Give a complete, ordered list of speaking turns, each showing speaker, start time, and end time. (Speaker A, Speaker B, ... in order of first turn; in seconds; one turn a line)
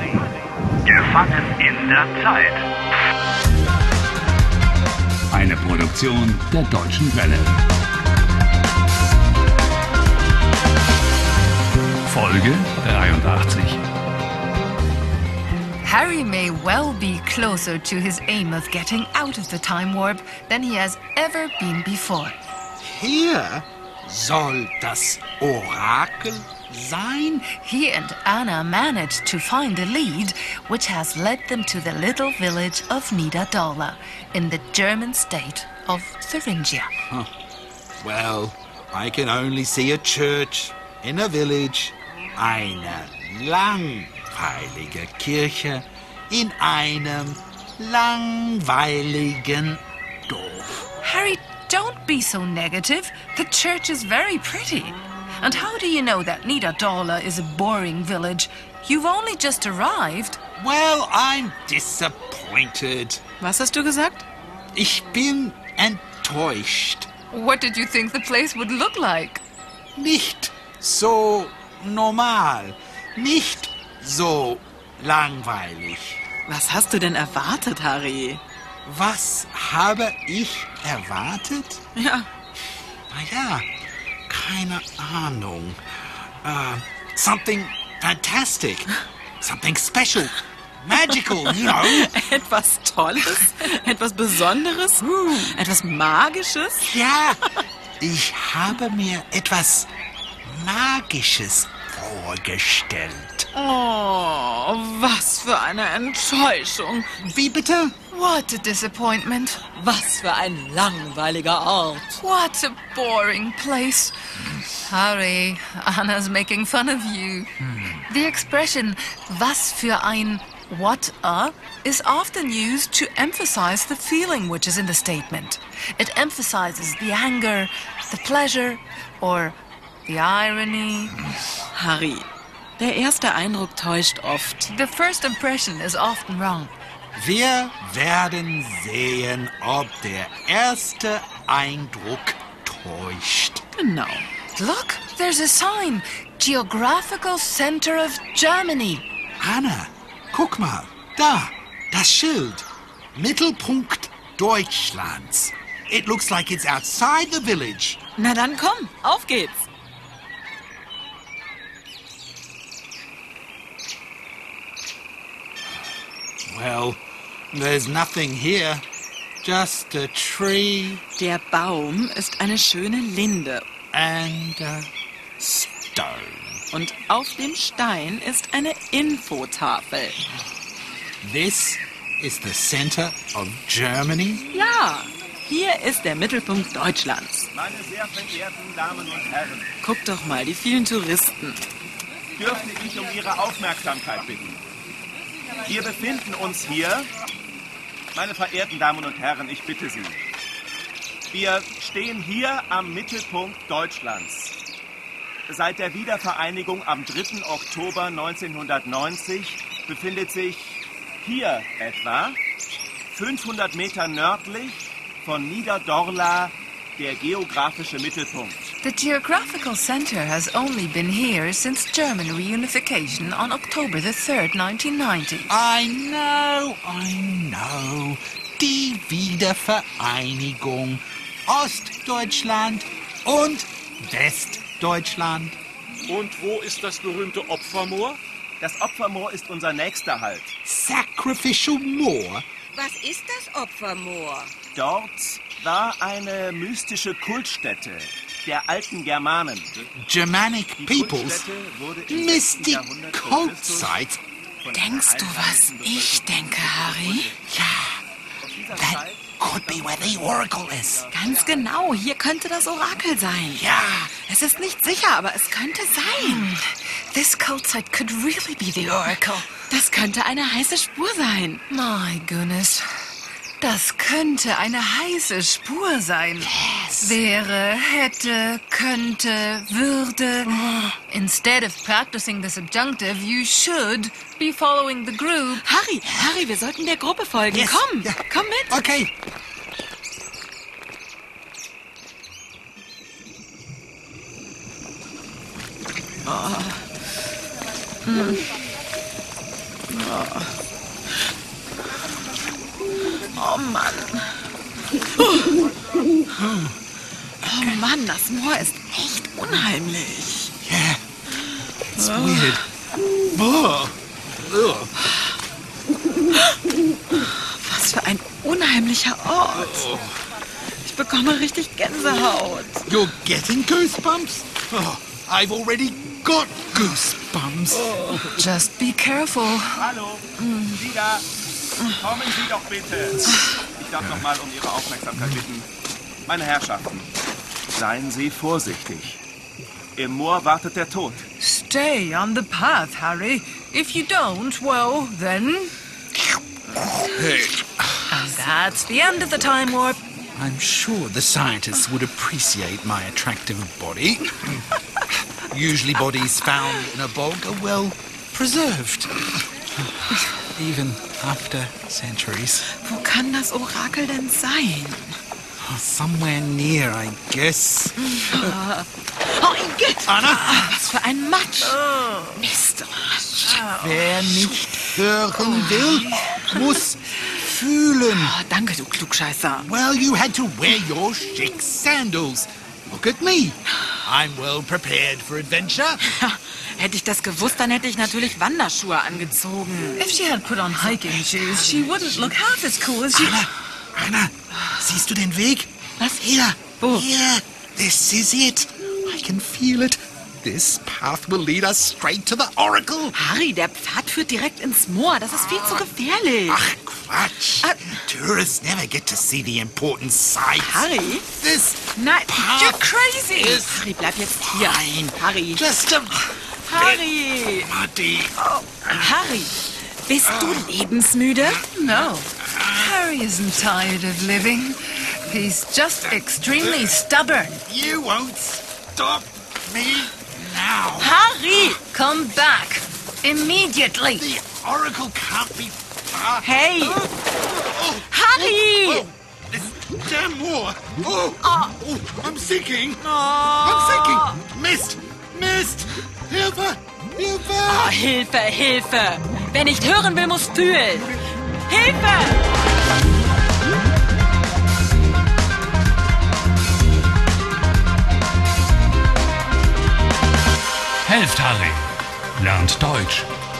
Speaker A: 0.8-2.6
Speaker A: 5.3-7.6
Speaker A: 12.1-13.8
Speaker B: 15.8-22.4
Speaker C: 22.8-27.4
Speaker B: 27.4-36.9
Speaker C: 38.0-50.9
Speaker B: 51.0-60.4
Speaker C: 60.6-63.2
Speaker D: 63.4-64.2
Speaker C: 64.7-67.1
Speaker B: 67.3-69.4
Speaker C: 70.0-76.2
Speaker D: 76.5-78.4
Speaker C: 78.8-81.8
Speaker D: 82.0-82.3
Speaker C: 83.1-83.7
Speaker C: 84.3-92.1
Speaker D: 91.5-96.9
Speaker B: 95.0-95.5
Speaker C: 96.8-97.4
Speaker C: 98.0-99.9
Speaker C: 100.4-103.5
Speaker D: 103.5-107.1
Speaker C: 107.2-108.0
Speaker B: 108.1-109.6
Speaker D: 109.8-112.2
Speaker B: 112.2-114.1
Speaker B: 114.7-131.2
Speaker D: 131.7-132.3
Speaker D: 132.8-134.7
Speaker B: 134.7-136.7
Speaker C: 137.1-143.6
Speaker D: 143.8-144.3
Speaker B: 144.5-149.1
Speaker C: 149.4-158.0
Speaker D: 158.2-159.7
Speaker C: 166.5-168.8
Speaker C: 169.4-171.0
Speaker D: 171.2-173.6
Speaker C: 173.9-176.6
Speaker D: 176.7-180.2
Speaker C: 181.2-184.4
Speaker D: 184.5-187.5
Speaker E: 187.5-189.7
Speaker D: 189.8-191.6
Speaker E: 192.4-194.6
Speaker E: 195.6-197.1
Speaker E: 198.1-200.2
Speaker E: 201.3-204.6
Speaker E: 205.5-212.4
Speaker E: 213.1-218.6
Speaker B: 218.8-225.5
Speaker C: 225.5-235.6
Speaker F: 236.1-238.2
Speaker E: 238.6-240.5
Speaker C: 240.6-242.4
Speaker D: 242.8-244.5
Speaker E: 244.7-249.9
Speaker C: 250.0-251.4
Speaker E: 250.8-254.0
Speaker C: 252.1-254.2
Speaker E: 254.6-257.4
Speaker D: 254.7-257.4
Speaker C: 257.5-258.0
Speaker E: 258.4-261.7
Speaker C: 258.7-261.1
Speaker D: 261.1-266.5
Speaker C: 263.5-264.1
Speaker B: 266.2-269.6
Speaker D: 269.7-271.6
Speaker B: 271.7-272.9
Speaker B: 273.6-280.5
Speaker C: 276.4-277.2
Speaker C: 280.5-280.8
Speaker B: 281.1-285.6
Speaker D: 285.6-288.8
Speaker C: 287.5-289.1
Speaker D: 296.2-296.9
Speaker D: 298.1-298.5
Speaker D: 299.9-300.5
Speaker D: 303.3-304.3
Speaker D: 305.1-305.6
Speaker C: 306.4-306.8
Speaker D: 307.4-310.5
Speaker C: 310.6-311.0
Speaker C: 311.9-312.6
Speaker D: 311.9-312.6
Speaker C: 313.3-314.9
Speaker D: 317.1-319.9
Speaker C: 319.5-320.2
Speaker D: 320.8-322.9
Speaker C: 322.9-328.4
Speaker D: 327.9-328.3
Speaker B: 328.3-329.8
Speaker E: 329.8-331.3
Speaker D: 330.4-330.8
Speaker D: 331.8-332.2
Speaker E: 331.8-335.7
Speaker E: 336.2-337.1
Speaker E: 337.7-339.2
Speaker E: 339.9-341.2
Speaker B: 341.4-345.7
Speaker C: 346.8-348.0
Speaker B: 348.1-350.0
Speaker C: 350.4-354.7
Speaker C: 355.4-362.7
Speaker D: 362.7-365.2
Speaker C: 365.6-368.5
Speaker D: 368.0-374.6
Speaker C: 370.0-370.7
Speaker C: 373.5-378.3
Speaker D: 375.6-376.7
Speaker D: 378.1-379.7
Speaker C: 379.6-386.0
Speaker D: 386.0-390.0
Speaker B: 389.9-393.4
Speaker D: 390.7-392.2
Speaker C: 393.1-403.2
Speaker D: 396.0-397.1
Speaker D: 403.1-406.6
Speaker C: 405.5-405.9
Speaker C: 406.4-413.8
Speaker D: 407.6-408.0
Speaker D: 410.6-411.3
Speaker D: 411.9-412.5
Speaker B: 412.5-413.6
Speaker D: 413.4-415.7
Speaker C: 414.4-419.2
Speaker D: 416.6-417.7
Speaker D: 418.4-421.6
Speaker C: 420.2-420.7
Speaker C: 421.4-423.0
Speaker B: 421.7-427.6
Speaker C: 426.0-427.0
Speaker C: 427.6-431.1
Speaker D: 431.0-431.8
Speaker B: 431.8-434.3
Speaker C: 434.1-443.1
Speaker D: 436.4-437.0
Speaker D: 438.1-439.0
Speaker D: 441.4-441.8
Speaker D: 443.0-444.4
Speaker C: 443.6-448.0
Speaker D: 447.6-452.4
Speaker A: 461.1-461.9
Speaker A: 462.4-463.3